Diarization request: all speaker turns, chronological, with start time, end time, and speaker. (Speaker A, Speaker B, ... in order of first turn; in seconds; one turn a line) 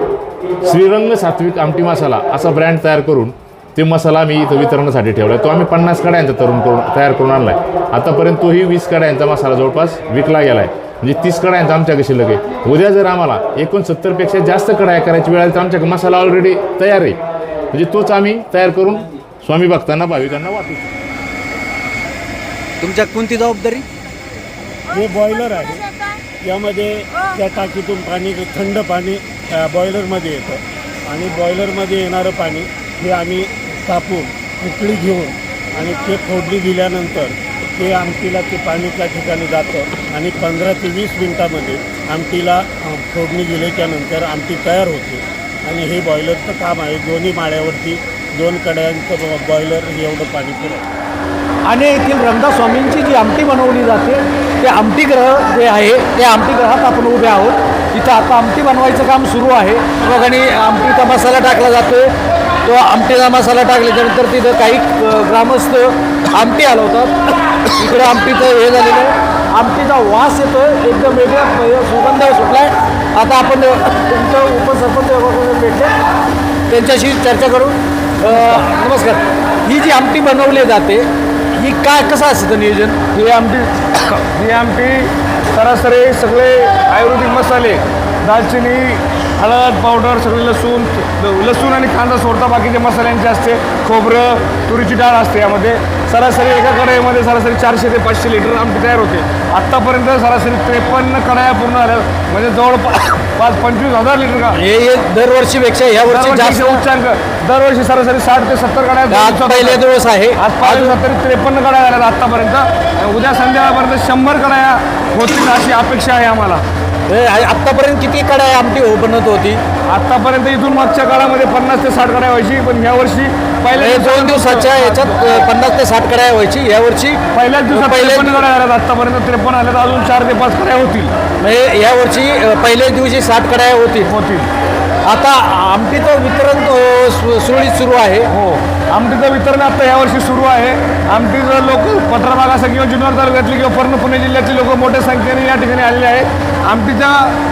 Speaker A: 0.6-17.2
Speaker A: 17.7-20.9
Speaker B: 22.8-23.9
Speaker C: 24.9-25.8
Speaker C: 26.4-50.8
Speaker B: 51.6-62.1
Speaker B: 62.6-67.1
Speaker B: 67.7-75.9
Speaker B: 76.7-83.0
Speaker D: 83.1-104.6
Speaker B: 104.5-106.8
Speaker D: 106.1-109.8
Speaker B: 109.1-111.0
Speaker D: 110.4-116.6
Speaker B: 117.1-119.6
Speaker D: 119.9-125.5
Speaker B: 123.7-128.4
Speaker D: 127.3-131.1
Speaker B: 131.4-134.1
Speaker D: 134.1-134.5
Speaker B: 135.0-138.3
Speaker D: 138.3-147.4